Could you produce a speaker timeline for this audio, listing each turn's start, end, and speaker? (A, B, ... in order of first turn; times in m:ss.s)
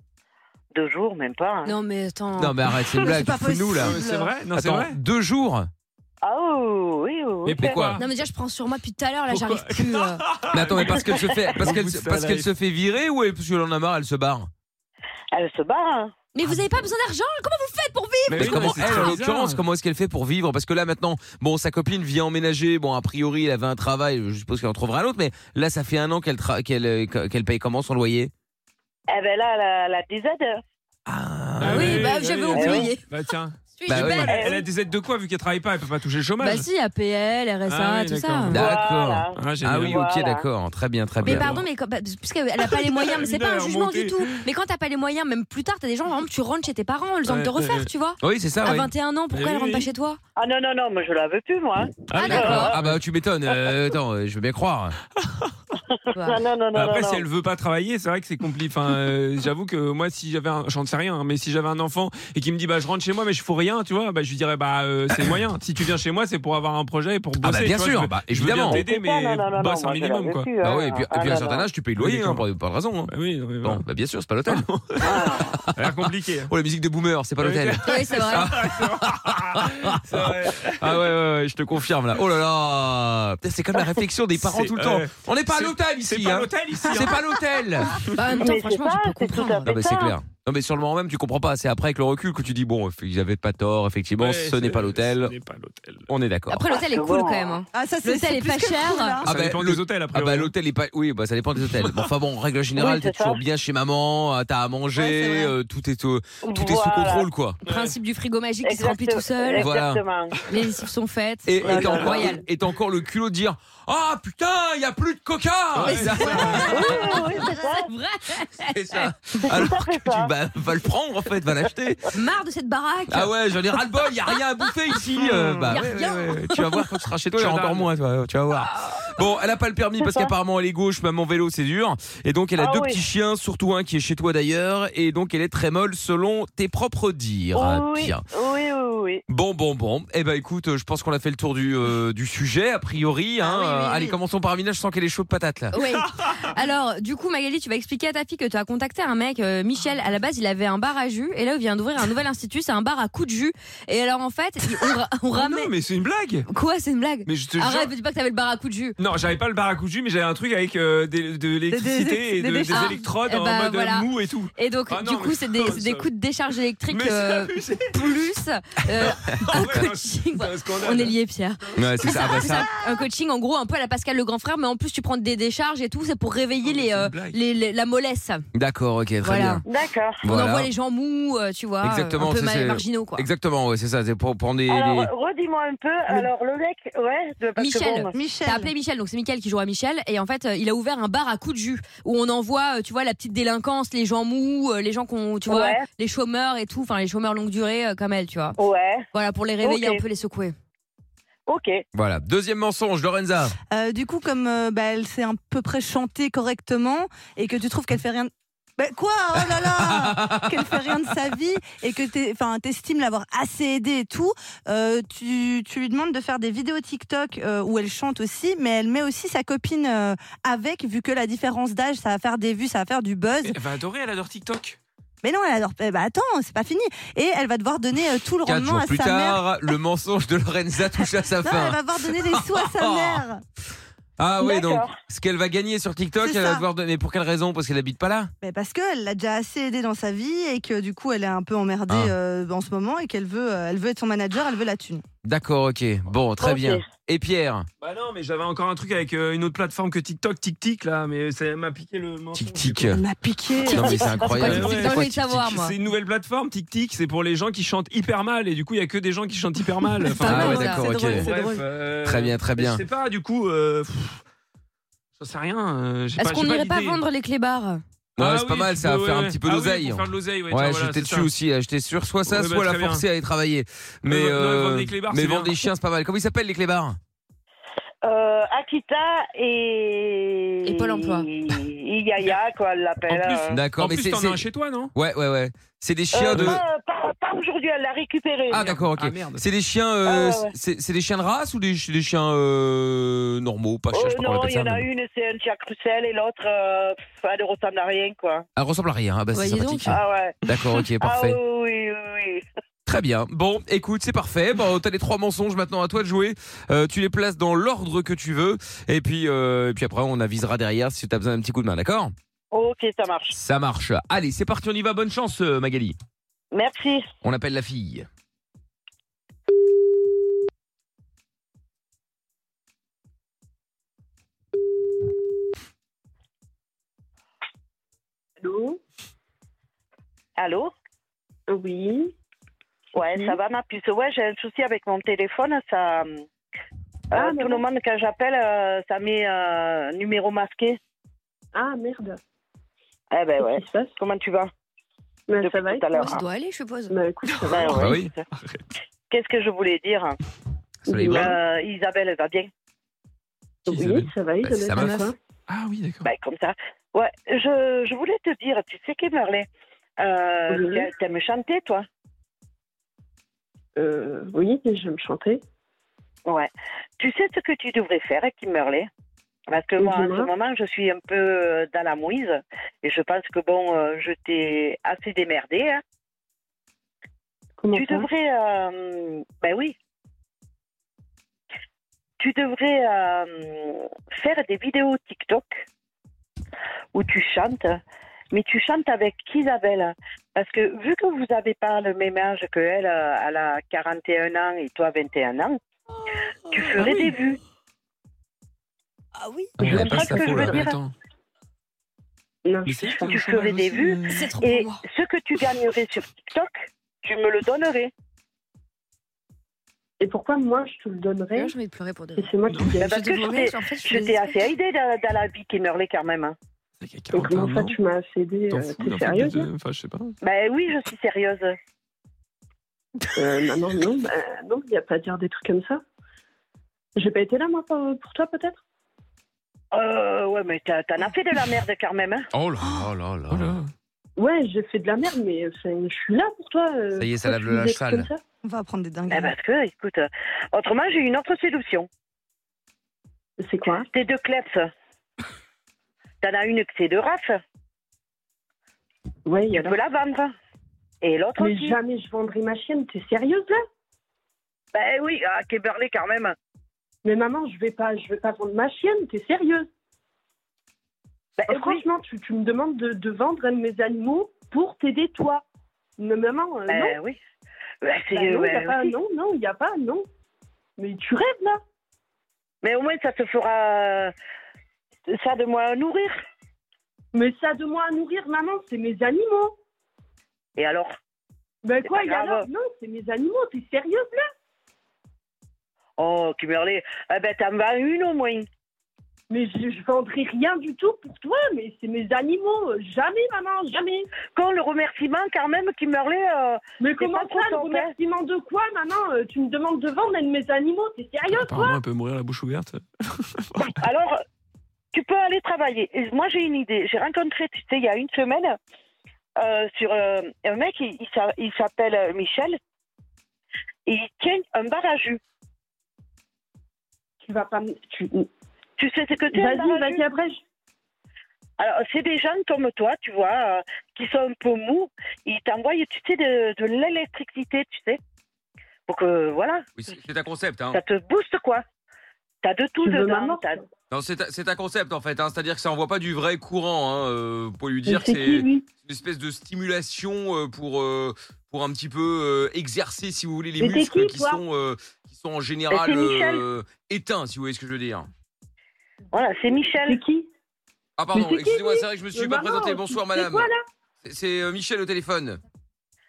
0:00.7-0:01.7 A
0:01.6-0:03.1 B
0:02.4-0:04.0 C
0:02.8-0:04.3 D
0:03.7-0:05.0 E
0:04.5-0:05.7 C
0:06.2-0:07.8 A
0:07.4-0:08.0 C
0:07.6-0:08.0 E
0:07.8-0:10.2 B
0:09.3-0:12.5 E
0:10.5-0:14.5 C
0:15.3-0:16.1 A
0:16.3-0:19.2 B
0:18.3-0:19.6 E
0:18.4-0:28.3 C
0:29.1-0:30.6 A
0:31.1-0:32.1 C
0:31.6-0:36.7 E
0:31.6-0:33.0 B
0:32.5-0:32.9 A
0:33.7-0:34.6 B
0:33.9-0:34.3 C
0:34.3-0:34.7 A
0:36.4-0:38.7 B
0:37.6-0:38.7 E
0:38.5-0:41.5 C
0:38.7-0:40.4 A
0:39.3-0:40.1 E
0:41.2-0:50.2 B
0:41.2-0:41.7 E
0:42.6-0:44.4 E
0:47.2-0:47.9 E
0:48.2-0:48.9 C
0:49.3-0:49.9 E
0:50.4-0:52.8 A
0:52.0-0:53.0 E
0:52.1-0:52.8 B
0:52.5-0:54.9 C
0:55.2-0:55.5 E
0:55.8-0:57.2 A
0:56.2-0:56.4 B
0:56.7-1:10.8 E
1:07.4-1:08.8 C
1:08.8-1:11.7 A
1:10.6-1:13.1 C
1:11.9-1:12.4 E
1:13.1-1:13.8 E
1:13.6-1:14.6 C
1:14.4-1:16.5 E
1:15.0-1:15.5 A
1:15.5-1:28.0 C
1:17.4-1:21.1 E
1:17.8-1:18.5 B
1:24.3-1:27.3 E
1:27.9-1:28.3 E
1:28.1-1:29.7 B
1:28.4-1:30.2 A
1:29.6-1:35.3 C
1:34.2-1:36.1 E
1:36.1-1:36.7 C
1:36.5-1:39.2 B
1:36.8-1:37.6 A
1:37.7-1:39.3 D
1:39.2-1:40.5 E
1:39.2-1:47.6 C
1:41.6-1:42.1 E
1:42.8-1:43.4 A
1:45.0-1:45.5 D
1:46.4-1:47.3 A
1:47.6-1:48.0 E
1:47.6-1:49.7 B
1:48.6-1:50.4 A
1:49.5-1:50.0 C
1:50.4-1:52.4 B
1:51.5-1:56.8 C
1:51.6-1:52.4 E
1:51.6-1:52.3 A
1:55.7-1:57.0 E
1:55.8-1:57.9 D
1:55.9-1:59.1 B
1:56.7-1:57.8 A
1:58.7-2:02.0 C
1:59.4-2:00.3 A
2:02.1-2:06.9 B
2:03.1-2:18.2 C
2:05.2-2:05.8 D
2:07.3-2:07.9 E
2:10.0-2:10.3 A
2:12.6-2:13.0 A
2:17.5-2:19.2 A
2:19.3-2:25.7 C
2:23.4-2:24.2 D
2:25.7-2:35.7 B
2:34.8-2:36.4 E
2:36.5-2:39.0 B
2:37.2-2:37.9 E
2:39.0-2:46.1 E
2:41.7-2:43.1 D
2:42.7-2:58.4 B
2:46.9-2:48.1 E
2:49.0-2:51.2 E
2:51.8-2:52.7 C
2:52.0-2:53.1 D
2:56.6-2:57.4 E
2:58.5-2:59.6 C
2:59.2-2:59.6 B
2:59.6-3:00.3 A
3:00.2-3:00.7 C
3:00.2-3:03.2 B
3:01.8-3:05.1 C
3:04.7-3:08.1 A
3:07.6-3:18.6 B
3:08.1-3:08.7 D
3:15.5-3:15.8 A
3:18.6-3:19.0 A
3:19.1-3:20.5 B
3:19.6-3:20.0 A
3:21.5-3:21.8 A
3:21.9-3:23.5 C
3:23.7-3:43.6 D
3:29.7-3:30.4 C
3:43.4-3:44.8 E
3:45.2-3:49.5 D
3:48.4-3:53.2 C
3:50.9-3:53.4 D
3:54.2-3:58.3 C
3:54.4-3:55.0 A
3:56.2-3:56.6 D
3:58.4-4:05.0 D
4:01.9-4:02.1 C
4:05.2-4:07.7 C
4:06.4-4:06.9 A
4:07.8-4:13.0 E
4:12.4-4:13.0 C
4:12.9-4:14.6 D
4:13.7-4:15.5 C
4:13.8-4:14.3 A
4:14.2-4:15.8 B
4:14.4-4:24.2 E
4:19.8-4:21.6 D
4:20.2-4:20.9 B
4:20.2-4:21.3 C
4:22.0-4:22.8 C
4:25.2-4:27.0 E
4:26.2-4:27.8 B
4:28.2-4:37.0 C
4:28.2-4:31.3 E
4:32.2-4:33.0 E
4:34.0-4:35.7 E
4:38.0-4:43.6 A
4:40.6-4:41.3 B
4:43.0-4:44.9 E
4:43.5-4:44.4 C
4:44.9-4:46.6 C
4:46.1-4:48.6 A
4:46.3-4:46.6 E
4:48.5-4:54.8 C
4:48.5-4:49.4 E
4:50.0-4:50.5 A
4:53.9-4:58.4 A
4:58.6-5:01.4 C
4:59.3-5:00.0 B
4:59.9-5:02.4 A
5:02.9-5:12.1 C
5:12.5-5:13.3 A
5:13.3-5:16.0 C
5:16.5-5:17.1 A
5:17.2-5:18.1 C
5:28.4-5:28.8 F
5:30.4-5:30.7 A
5:31.5-5:32.1 F
5:32.9-5:36.2 A
5:33.0-5:33.4 F
5:37.1-5:40.8 A
5:37.1-5:37.6 F
5:41.5-5:42.2 F
5:43.1-5:44.5 A
5:43.4-5:43.9 F
5:45.3-5:46.0 F
5:45.3-5:46.2 A
5:45.9-5:46.9 B
5:46.9-5:48.0 F
5:47.2-5:48.6 E
5:47.5-5:48.2 A
5:47.7-5:48.1 C
5:49.1-5:50.2 A
5:50.9-5:51.4 C
5:50.9-5:51.4 F
5:51.2-5:52.5 A
5:53.6-5:55.2 F
5:53.7-5:54.1 E
5:54.4-5:55.0 C
5:55.5-5:56.1 E
5:56.0-6:01.8 A
6:00.5-6:00.8 F
6:03.8-6:05.4 F
6:06.2-6:08.9 A
6:09.5-6:15.8 A
6:09.8-6:10.3 F
6:17.6-6:18.1 F
6:17.7-6:19.7 A
6:22.2-6:25.6 A
6:26.9-6:27.8 A
6:28.3-6:35.6 A
6:36.5-6:37.4 A
6:36.7-6:37.1 E
6:39.6-6:40.5 C
6:39.6-6:40.9 E
6:39.7-6:40.6 F
6:39.8-6:40.8 A
6:42.4-6:43.1 F
6:42.6-6:44.3 E
6:43.1-6:47.9 A
6:44.1-6:44.8 B
6:50.0-6:51.5 F
6:51.3-6:54.3 B
6:52.2-6:52.8 F
6:52.5-6:52.8 E
6:52.8-6:56.4 A
6:56.8-6:57.8 E
6:57.1-6:59.4 F
6:58.5-7:00.1 E
7:00.2-7:01.6 A
7:03.2-7:05.8 F
7:07.0-7:08.6 F
7:09.7-7:12.3 A
7:12.3-7:13.6 C
7:13.3-7:13.7 E
7:14.2-7:18.2 F
7:16.9-7:18.1 C
7:18.4-7:19.3 D
7:19.1-7:21.9 A
7:23.4-7:23.9 F
7:23.9-7:24.7 A
7:26.2-7:27.4 A
7:29.2-7:29.7 F
7:29.5-7:30.3 A
7:31.0-7:31.8 A
7:31.4-7:33.6 F
7:34.7-7:36.4 A
7:37.0-7:39.7 F
7:41.4-7:41.9 A
7:41.5-7:45.4 F
7:46.0-7:47.0 F
7:46.7-7:47.2 A
7:47.8-7:49.0 A
7:48.1-7:50.1 F
7:50.8-7:51.6 F
7:52.6-7:54.1 A
7:55.1-7:56.2 A
7:57.1-7:59.6 F
8:00.6-8:00.9 A
8:01.6-8:04.2 F
8:01.8-8:02.5 A
8:06.0-8:08.5 A
8:09.3-8:14.1 F
8:14.2-8:17.9 A
8:16.8-8:21.8 F
8:21.3-8:23.8 E
8:23.6-8:24.2 A
8:24.9-8:28.6 A
8:29.4-8:32.6 A
8:33.8-8:35.2 A
8:37.2-8:38.3 F
8:38.8-8:40.1 A
8:39.3-8:40.4 F
8:41.6-8:48.0 A
8:48.9-8:49.6 A
8:49.8-8:50.8 C
8:50.7-8:51.6 A
8:52.4-8:53.6 A
8:52.8-8:53.6 F
8:53.9-9:08.1 C
8:57.8-8:58.7 F
9:03.6-9:04.4 F
9:05.8-9:06.4 A
9:09.1-9:10.0 A
9:09.8-9:10.3 F
9:11.0-9:13.5 C
9:11.1-9:13.6 F
9:14.0-9:15.4 C